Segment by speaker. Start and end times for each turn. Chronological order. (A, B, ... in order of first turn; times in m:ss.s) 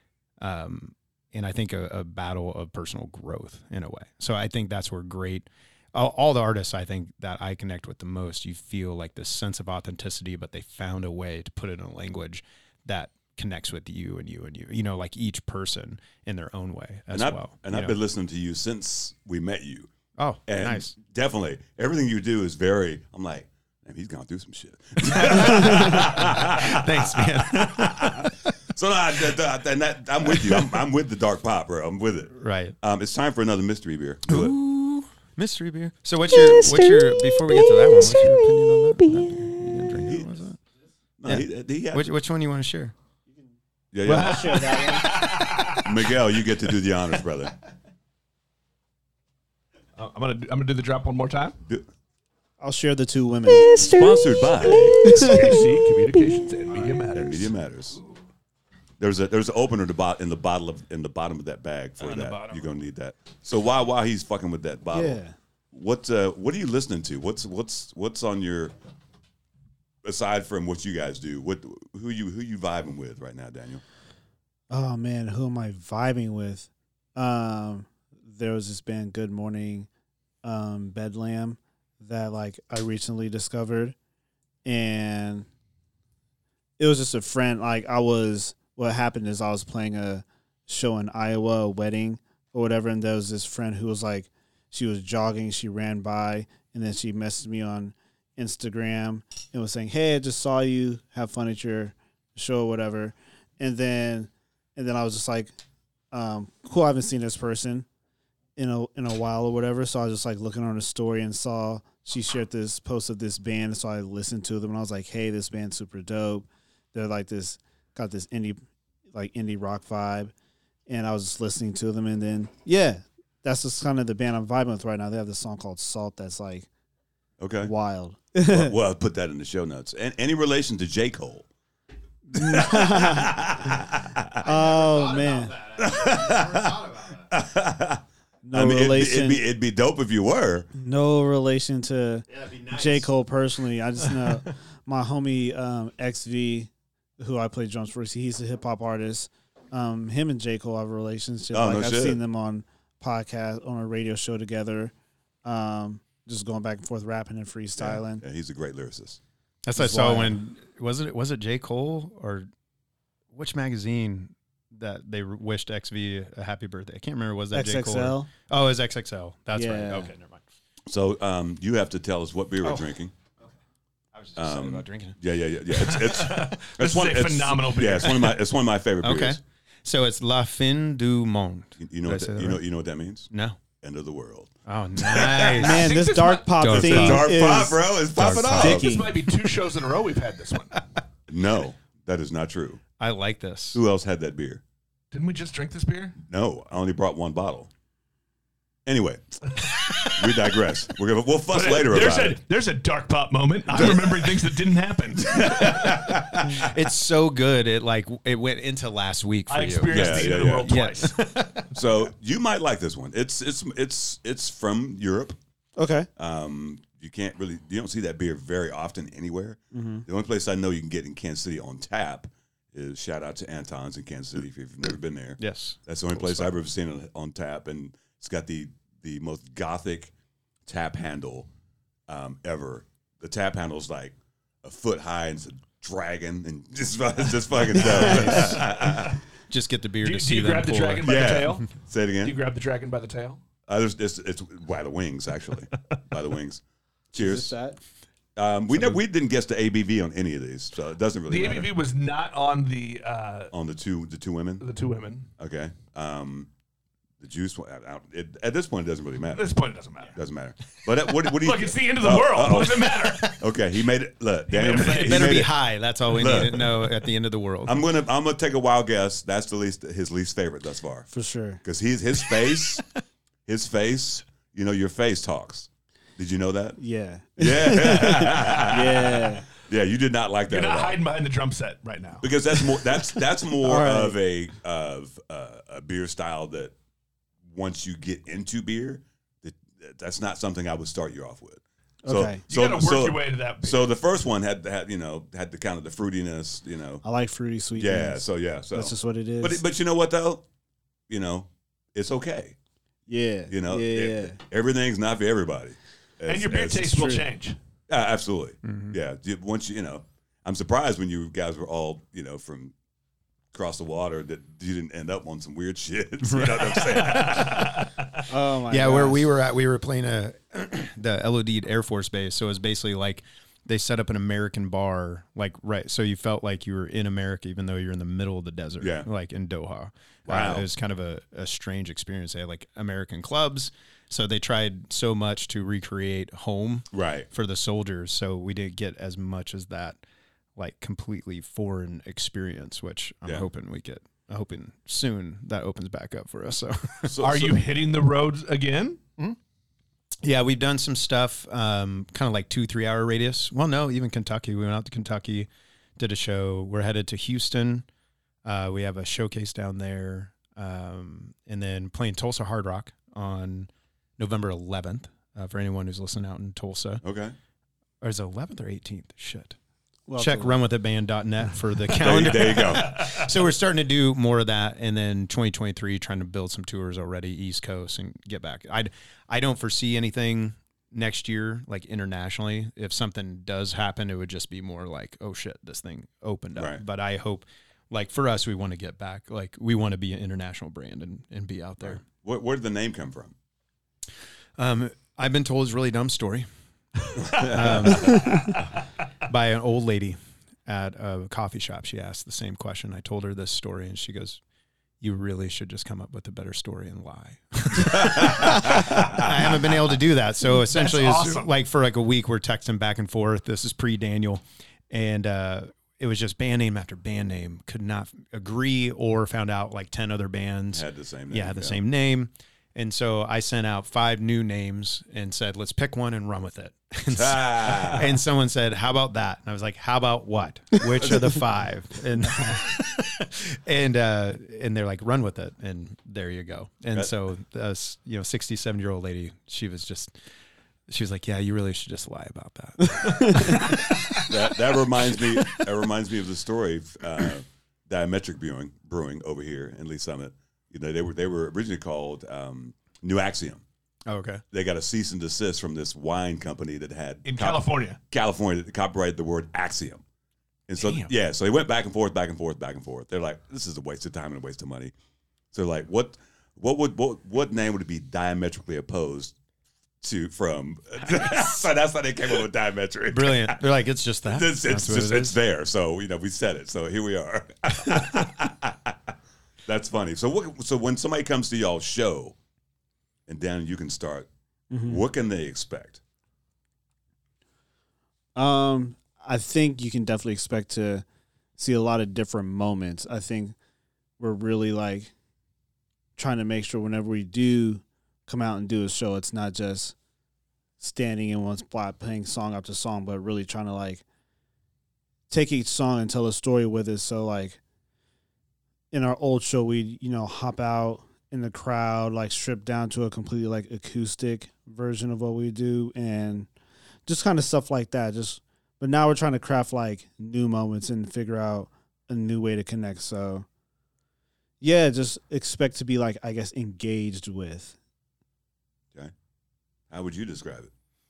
0:00.4-0:18.0 A
0:17.1-0:19.9 B
0:20.2-0:20.9 A
0:20.5-0:34.6 B
0:25.0-0:28.4 A
0:30.3-0:30.8 A
0:32.4-0:32.8 A
0:34.3-0:40.6 A
0:40.0-0:40.3 B
0:41.2-0:42.1 B
0:41.2-0:42.9 A
0:43.9-0:44.9 B
0:44.0-0:45.2 C
0:44.1-0:46.1 D
0:45.8-0:47.6 B
0:50.0-0:51.6 D
0:52.6-0:53.9 C
0:53.7-0:55.4 B
0:55.0-0:57.5 D
0:57.1-0:58.0 B
0:59.0-1:05.2 B
1:02.0-1:02.6 A
1:04.9-1:05.4 C
1:05.7-1:08.7 B
1:10.0-1:13.8 B
1:14.7-1:19.9 C
1:20.4-1:24.0 C
1:24.6-1:25.5 C
1:26.8-1:45.5 C
1:46.1-1:47.9 C
1:48.6-1:58.6 C
1:59.1-2:00.3 C
2:00.9-2:06.7 C
2:07.4-2:07.7 B
2:07.6-2:08.7 C
2:08.5-2:11.5 B
2:12.3-2:14.5 B
2:12.3-2:13.4 C
2:14.4-2:15.6 C
2:14.4-2:17.3 A
2:15.8-2:18.0 B
2:18.4-2:19.4 C
2:18.5-2:20.7 B
2:20.8-2:34.9 C
2:22.3-2:23.1 A
2:31.5-2:32.2 B
2:35.4-2:38.2 C
2:37.8-2:39.2 B
2:39.6-2:42.5 A
2:39.8-2:40.4 C
2:43.3-2:50.4 A
2:47.5-2:48.3 C
2:49.5-2:50.1 C
2:50.9-2:53.1 B
2:52.6-2:52.9 A
2:54.1-2:55.2 A
2:54.4-2:59.4 B
2:55.8-2:58.4 D
2:59.0-3:02.6 A
3:01.8-3:03.3 B
3:03.3-3:03.6 A
3:03.8-3:05.6 B
3:04.7-3:06.0 A
3:05.5-3:07.9 C
3:05.6-3:06.6 D
3:06.6-3:07.4 A
3:06.6-3:08.9 B
3:08.2-3:08.8 A
3:08.4-3:09.1 C
3:08.6-3:10.8 D
3:11.3-3:12.8 B
3:13.0-3:13.8 A
3:13.7-3:14.6 B
3:15.1-3:16.2 D
3:16.3-3:17.7 B
3:18.9-3:22.4 B
3:19.6-3:20.4 D
3:21.5-3:26.0 D
3:23.7-3:24.3 B
3:25.3-3:26.7 B
3:25.4-3:31.7 A
3:29.5-3:31.2 D
3:29.9-3:30.7 B
3:31.7-3:35.4 B
3:35.8-3:36.1 C
3:36.2-3:50.1 B
3:39.7-3:40.0 C
3:45.4-3:46.5 A
3:50.7-3:51.5 B
3:52.1-3:59.2 B
3:57.8-3:58.7 A
3:59.5-4:01.4 A
4:00.0-4:01.7 D
4:01.0-4:02.4 B
4:02.2-4:03.4 D
4:03.7-4:06.6 B
4:07.1-4:07.6 B
4:07.1-4:07.8 C
4:08.4-4:11.7 B
4:11.3-4:13.5 D
4:13.5-4:14.6 B
4:14.6-4:15.3 D
4:15.4-4:16.5 B
4:17.2-4:19.5 B
4:19.4-4:20.1 D
4:20.1-4:27.0 B
4:21.2-4:23.4 D
4:24.5-4:25.4 D
4:24.7-4:27.8 A
4:27.7-4:31.1 B
4:31.1-4:31.6 C
4:31.6-4:32.8 B
4:33.5-4:36.8 B
4:36.8-4:39.4 C
4:37.4-4:41.0 B
4:40.5-4:42.8 D
4:42.2-4:46.7 B
4:43.6-4:44.2 C
4:47.5-4:57.0 B
4:52.0-4:52.4 C
4:52.5-4:53.8 D
4:57.0-4:59.6 C
4:57.8-5:00.4 B
5:01.1-5:02.6 B
5:03.1-5:04.4 C
5:03.5-5:07.1 B
5:06.3-5:07.6 D
5:06.9-5:07.2 C
5:07.9-5:12.7 B
5:08.6-5:09.0 A
5:13.5-5:17.8 B
5:16.3-5:17.7 A
5:17.1-5:18.0 D
5:18.3-5:19.2 C
5:18.7-5:40.0 A
5:28.8-5:29.1 B
5:30.3-5:30.7 B
5:36.9-5:37.3 B
5:40.6-5:47.1 A
5:47.0-5:47.6 B
5:47.2-5:49.0 D
5:50.2-5:57.9 A
5:58.4-6:07.0 A
6:07.0-6:07.4 B
6:08.0-6:09.6 A
6:10.1-6:10.6 C
6:10.2-6:32.0 A
6:11.9-6:13.1 B
6:26.6-6:26.8 B
6:31.8-6:33.3 B
6:34.6-6:38.6 A
6:37.2-6:38.5 B
6:39.3-6:44.4 A
6:45.0-7:20.2 A
6:48.0-6:49.3 B
6:50.6-6:51.5 D
7:00.7-7:01.8 B
7:07.1-7:08.2 B
7:20.9-7:25.7 A
7:23.6-7:33.6 B
7:34.1-7:34.4 A
7:34.5-7:40.0 B
7:37.3-7:38.0 D
7:40.7-7:44.9 B
7:45.5-7:49.3 B
7:50.0-7:53.6 B
7:53.1-7:55.4 A
7:54.3-7:59.0 B
7:59.7-8:02.4 B
8:03.3-8:04.3 B
8:04.7-8:05.0 C
8:04.8-8:06.0 B
8:08.4-8:11.0 C
8:11.6-8:13.6 C
8:14.2-8:15.1 C
8:16.2-8:20.0 C
8:20.8-8:24.0 C
8:25.3-8:27.6 C
8:28.9-8:36.5 C
8:37.1-8:43.5 C
8:44.6-8:47.8 C
8:49.9-8:50.7 B